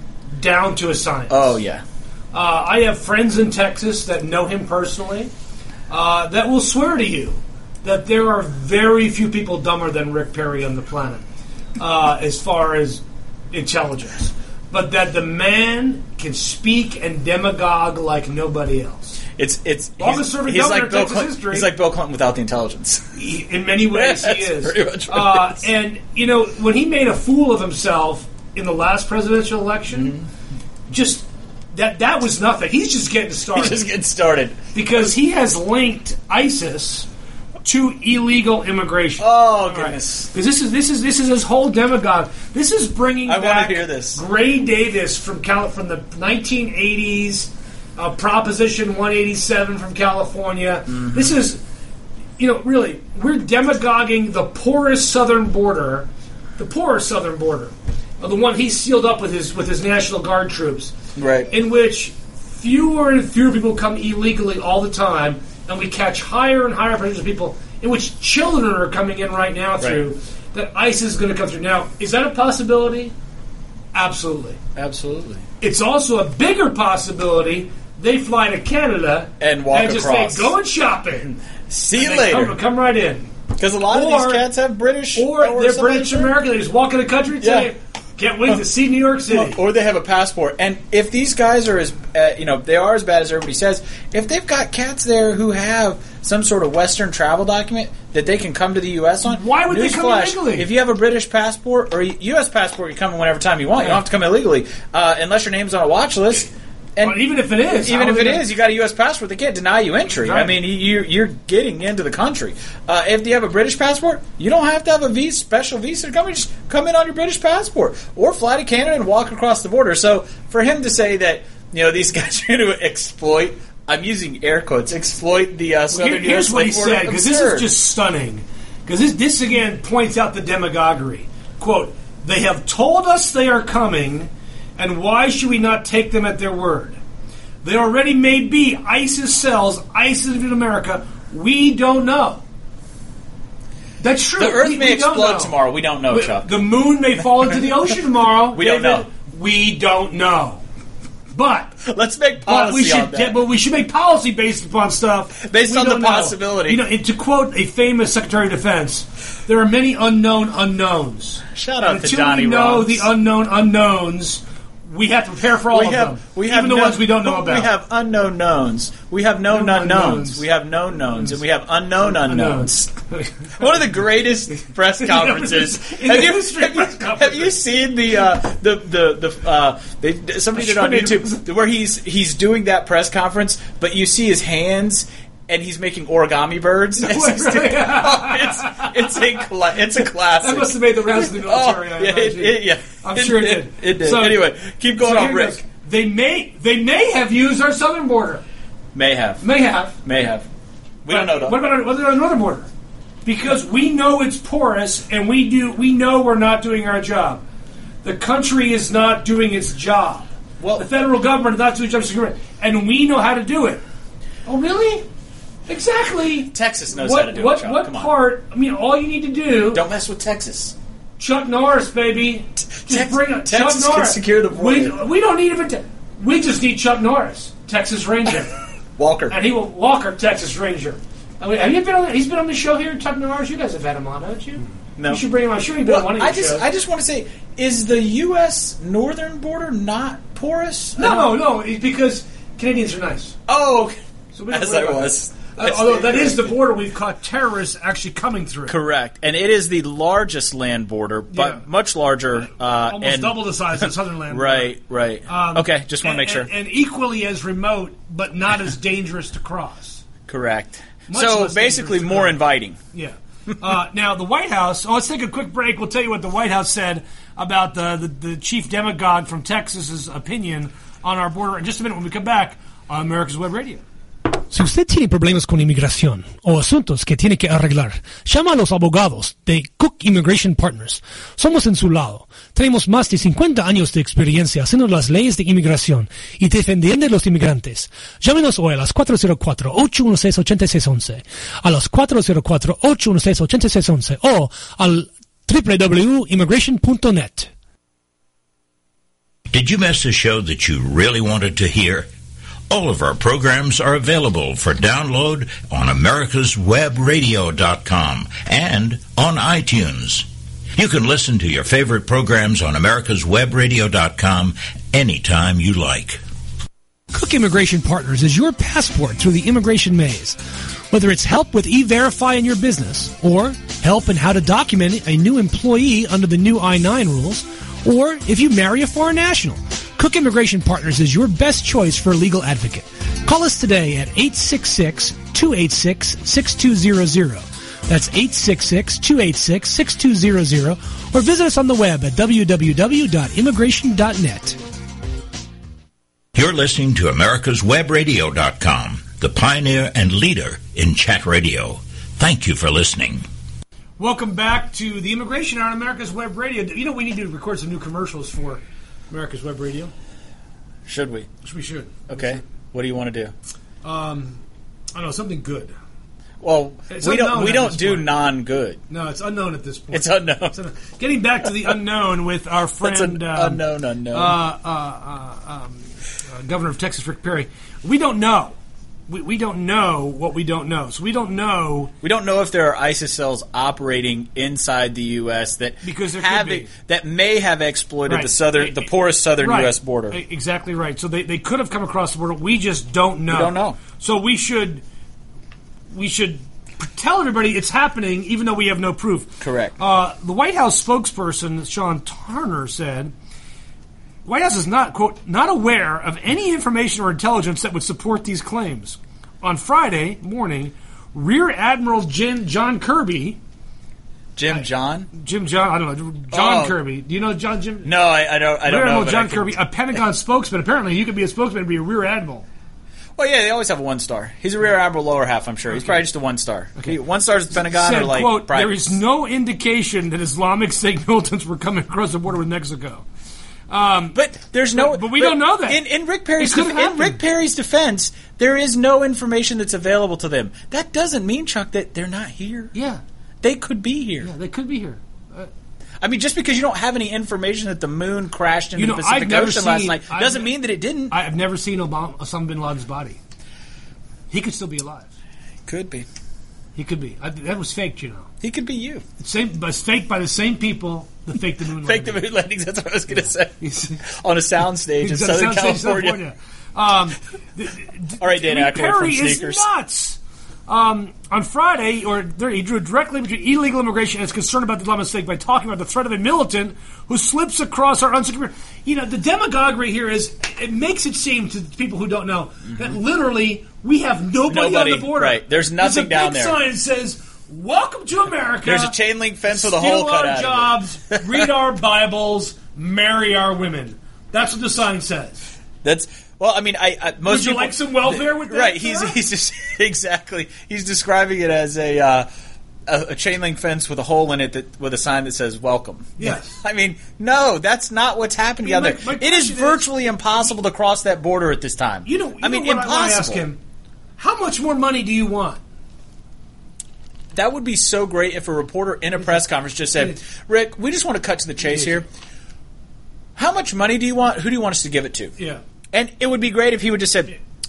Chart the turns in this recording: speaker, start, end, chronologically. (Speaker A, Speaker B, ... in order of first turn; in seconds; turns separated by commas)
Speaker A: 0.4-1.6, Speaker B: 1.3-1.8, Speaker A: 2.3-5.3, Speaker A: 5.9-11.2, Speaker A: 11.8-19.2, Speaker B: 19.4-23.1, Speaker A: 20.0-21.7, Speaker A: 23.2-30.1, Speaker B: 23.8-25.6, Speaker B: 29.9-30.2, Speaker A: 30.9-33.8, Speaker B: 33.5-35.1, Speaker A: 34.7-37.1, Speaker A: 37.6-51.6, Speaker B: 39.2-40.3, Speaker B: 43.3-44.2, Speaker B: 50.9-51.3, Speaker A: 52.4-60.9, Speaker B: 61.2-61.5, Speaker A: 61.5-73.1, Speaker A: 73.9-74.6, Speaker B: 74.8-75.5, Speaker A: 75.6-81.4, Speaker B: 79.4-80.5, Speaker B: 81.7-82.6, Speaker A: 81.9-83.3, Speaker B: 83.6-86.3, Speaker A: 83.9-84.5, Speaker A: 85.2-89.6, Speaker B: 87.4-87.7, Speaker B: 89.3-127.7, Speaker A: 99.2-100.7, Speaker A: 107.0-108.5, Speaker A: 110.2-110.5, Speaker A: 125.9-137.0, Speaker A: 137.6-142.4, Speaker A: 144.0-145.5, Speaker B: 144.4-146.5, Speaker A: 146.1-150.6, Speaker B: 148.5-149.1, Speaker A: 151.3-151.8, Speaker B: 151.8-153.4, Speaker A: 152.5-167.7, Speaker B: 155.4-156.8, Speaker B: 161.6-163.1, Speaker B: 165.7-172.9, Speaker A: 169.5-170.4, Speaker A: 172.0-173.8, Speaker B: 173.5-195.6, Speaker A: 175.0-177.6, Speaker A: 180.6-181.4, Speaker A: 187.0-189.2, Speaker A: 190.0-194.4, Speaker A: 195.0-198.4, Speaker B: 198.9-199.5, Speaker A: 199.4-200.0, Speaker B: 200.0-200.5, Speaker B: 201.1-201.6, Speaker A: 201.1-202.7, Speaker A: 203.2-207.4, Speaker A: 208.0-213.8, Speaker B: 210.6-210.9, Speaker A: 214.5-215.1, Speaker A: 215.7-219.8, Speaker B: 216.5-218.1, Speaker B: 219.7-220.8, Speaker A: 221.2-228.6, Speaker B: 222.7-225.0, Speaker B: 229.0-229.4, Speaker A: 229.3-236.7, Speaker B: 235.0-235.2, Speaker B: 235.8-241.3, Speaker A: 241.0-243.4, Speaker B: 243.5-244.0, Speaker A: 244.3-248.8, Speaker B: 244.5-246.6, Speaker B: 248.7-256.5, Speaker A: 251.3-251.6, Speaker A: 252.5-254.8, Speaker A: 255.3-260.0, Speaker B: 260.3-262.8, Speaker A: 261.1-262.4, Speaker A: 262.9-273.8, Speaker A: 274.5-297.5, Speaker C: 299.5-302.1, Speaker C: 302.7-316.2, Speaker A: 317.1-320.4, Speaker A: 320.9-344.6, Speaker C: 346.4-353.2, Speaker A: 354.0-359.9, Speaker B: 360.9-361.3, Speaker A: 361.4-362.4, Speaker B: 362.1-363.3, Speaker A: 363.8-364.4, Speaker A: 364.9-365.7, Speaker B: 366.4-368.8, Speaker A: 366.9-368.1, Speaker A: 368.9-373.6, Speaker B: 369.9-370.6, Speaker B: 372.8-374.4, Speaker A: 374.1-381.9, Speaker B: 382.0-390.2, Speaker A: 385.8-386.7, Speaker A: 388.1-388.9, Speaker A: 389.4-394.8, Speaker B: 393.3-393.8, Speaker A: 395.9-403.1, Speaker B: 399.4-399.7, Speaker A: 404.2-413.4, Speaker B: 414.4-415.1, Speaker A: 414.5-417.9, Speaker B: 416.3-416.8, Speaker B: 417.8-419.6, Speaker A: 418.7-422.5, Speaker B: 423.2-428.9, Speaker A: 425.7-426.0, Speaker A: 427.5-433.1, Speaker A: 433.7-434.2, Speaker B: 434.1-442.7, Speaker A: 434.7-435.8, Speaker A: 436.4-437.2, Speaker A: 442.7-443.0, Speaker B: 443.4-444.3, Speaker A: 444.2-445.5, Speaker B: 446.0-451.2, Speaker A: 448.8-450.5, Speaker A: 451.1-453.2, Speaker A: 454.3-455.1, Speaker B: 455.7-456.1, Speaker A: 456.8-458.3, Speaker B: 458.4-459.1, Speaker A: 459.2-462.2, Speaker B: 461.8-466.2, Speaker A: 463.1-464.0, Speaker A: 465.0-488.9, Speaker B: 468.2-469.7, Speaker B: 484.5-486.6, Speaker B: 488.6-491.5, Speaker A: 489.5-495.5, Speaker B: 495.8-502.3, Speaker A: 497.3-499.2, Speaker B: 502.9-513.5, Speaker A: 506.2-506.6, Speaker A: 508.6-509.9, Speaker A: 512.0-513.6, Speaker A: 514.2-515.6, Speaker B: 517.3-522.1, Speaker A: 521.6-522.0, Speaker B: 523.4-525.4, Speaker B: 525.9-527.4